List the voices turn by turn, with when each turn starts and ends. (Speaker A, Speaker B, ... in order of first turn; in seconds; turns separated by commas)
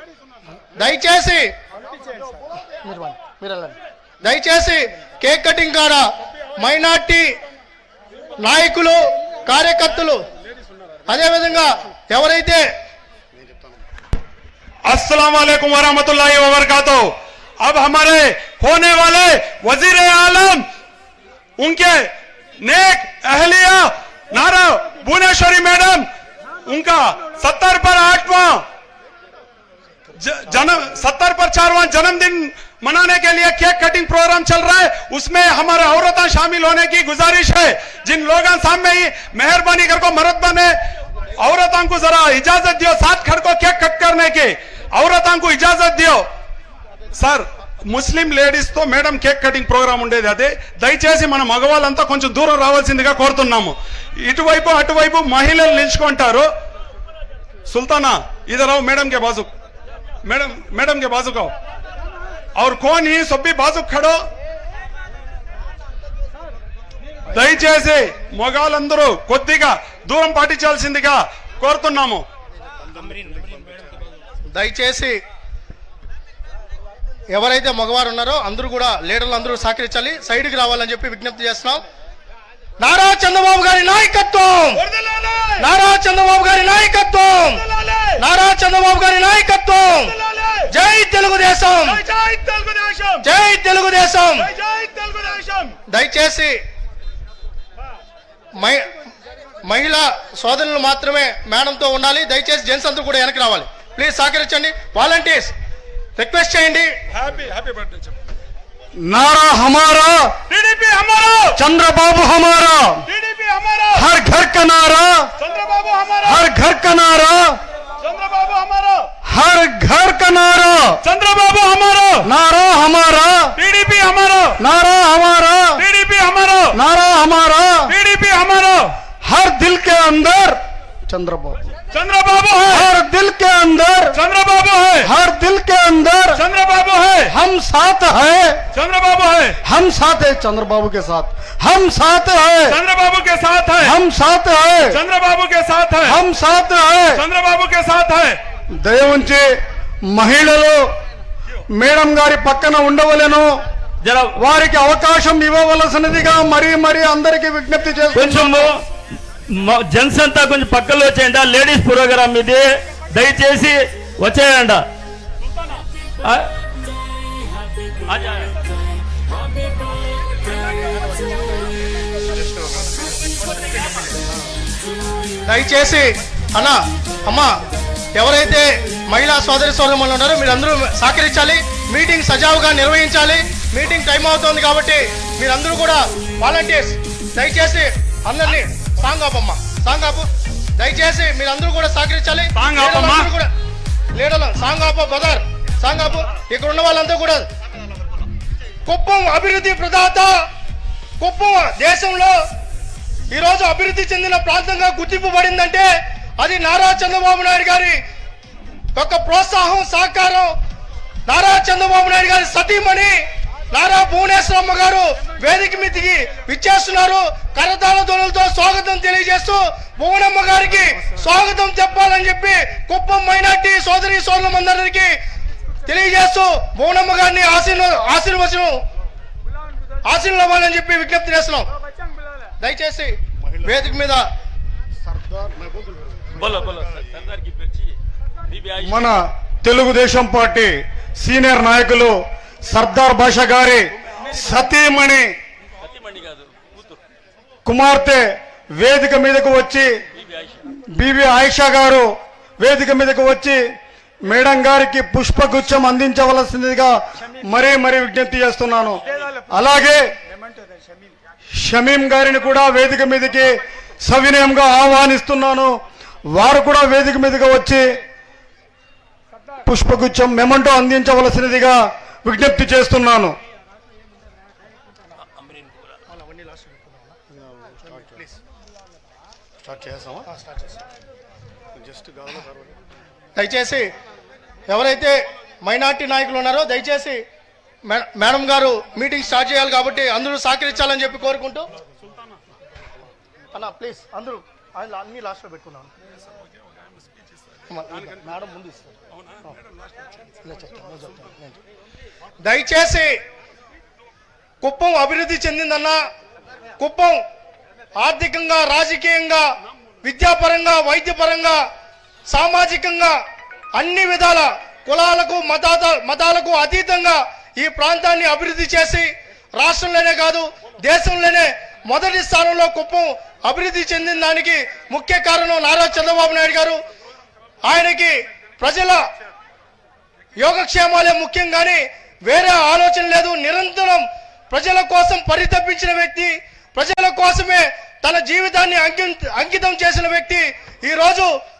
Speaker A: 0.8-1.5, Speaker A: 2.8-6.0, Speaker A: 6.6-7.3, Speaker A: 8.4-10.2, Speaker A: 11.1-12.7, Speaker B: 14.9-20.6, Speaker B: 21.6-21.9, Speaker B: 22.7-26.0, Speaker B: 26.7-28.6, Speaker B: 30.3-40.7, Speaker B: 41.4-46.2, Speaker B: 47.2-53.7, Speaker B: 54.2-56.5, Speaker B: 57.7-59.5, Speaker B: 60.3-61.5, Speaker B: 62.5-64.2, Speaker B: 67.4-72.2, Speaker A: 74.5-75.2, Speaker A: 77.3-81.8, Speaker A: 82.8-84.8, Speaker B: 84.9-85.5, Speaker A: 85.6-87.6, Speaker B: 87.8-88.1, Speaker A: 88.2-90.1, Speaker A: 90.7-92.0, Speaker B: 91.9-93.2, Speaker A: 93.2-94.5, Speaker B: 94.7-95.7, Speaker A: 95.9-96.6, Speaker A: 98.6-98.8, Speaker A: 99.6-105.5, Speaker A: 106.2-106.9, Speaker B: 107.2-108.1, Speaker C: 109.0-110.3, Speaker B: 110.5-111.5, Speaker C: 111.5-113.0, Speaker B: 113.1-113.9, Speaker C: 113.9-115.3, Speaker B: 115.5-116.4, Speaker C: 116.2-117.5, Speaker B: 118.0-119.0, Speaker C: 119.3-121.0, Speaker B: 121.1-122.2, Speaker C: 122.2-123.5, Speaker B: 123.6-124.5, Speaker C: 124.6-125.8, Speaker B: 125.8-126.8, Speaker C: 126.7-127.9, Speaker B: 127.9-128.9, Speaker C: 129.2-131.6, Speaker B: 131.9-132.8, Speaker C: 132.7-134.2, Speaker B: 134.2-135.1, Speaker C: 135.0-136.4, Speaker B: 136.4-137.3, Speaker C: 137.3-138.6, Speaker B: 138.8-139.6, Speaker C: 139.6-142.8, Speaker B: 142.7-143.9, Speaker C: 143.8-145.0, Speaker B: 144.9-146.2, Speaker C: 146.0-147.2, Speaker B: 147.2-148.4, Speaker C: 148.8-149.5, Speaker C: 150.1-150.8, Speaker C: 151.8-153.5, Speaker D: 154.0-154.3, Speaker C: 154.4-158.7, Speaker D: 158.1-158.8, Speaker D: 159.5-164.9, Speaker D: 166.2-166.6, Speaker D: 168.1-168.5, Speaker A: 175.5-177.5, Speaker A: 178.2-193.5, Speaker D: 192.6-193.2, Speaker A: 194.1-197.5, Speaker A: 198.9-200.3, Speaker A: 201.2-202.3, Speaker A: 203.3-208.0, Speaker A: 208.9-210.5, Speaker A: 211.3-213.2, Speaker A: 213.7-225.2, Speaker A: 225.9-228.8, Speaker A: 230.1-231.7, Speaker A: 232.6-234.2, Speaker C: 235.1-235.9, Speaker D: 236.4-237.7, Speaker B: 236.7-237.9, Speaker C: 238.8-242.1, Speaker C: 242.7-245.3, Speaker D: 245.8-246.5, Speaker B: 246.3-246.8, Speaker C: 247.7-248.2, Speaker C: 248.8-249.9, Speaker C: 250.9-252.1, Speaker C: 252.6-253.6, Speaker C: 254.3-260.0, Speaker C: 261.6-263.5, Speaker C: 264.1-265.7, Speaker C: 266.3-267.8, Speaker C: 269.6-273.3, Speaker A: 276.1-276.9, Speaker C: 279.6-280.2, Speaker C: 281.8-282.5, Speaker A: 283.4-283.9, Speaker A: 284.7-287.2, Speaker A: 287.9-291.7, Speaker A: 293.5-295.9, Speaker A: 297.7-298.9, Speaker A: 300.4-301.5, Speaker A: 302.4-303.1, Speaker A: 304.6-306.0, Speaker A: 306.8-307.2, Speaker A: 308.0-309.4, Speaker A: 310.0-311.6, Speaker A: 312.3-313.1, Speaker A: 313.8-326.8, Speaker A: 327.6-329.0, Speaker A: 330.4-341.3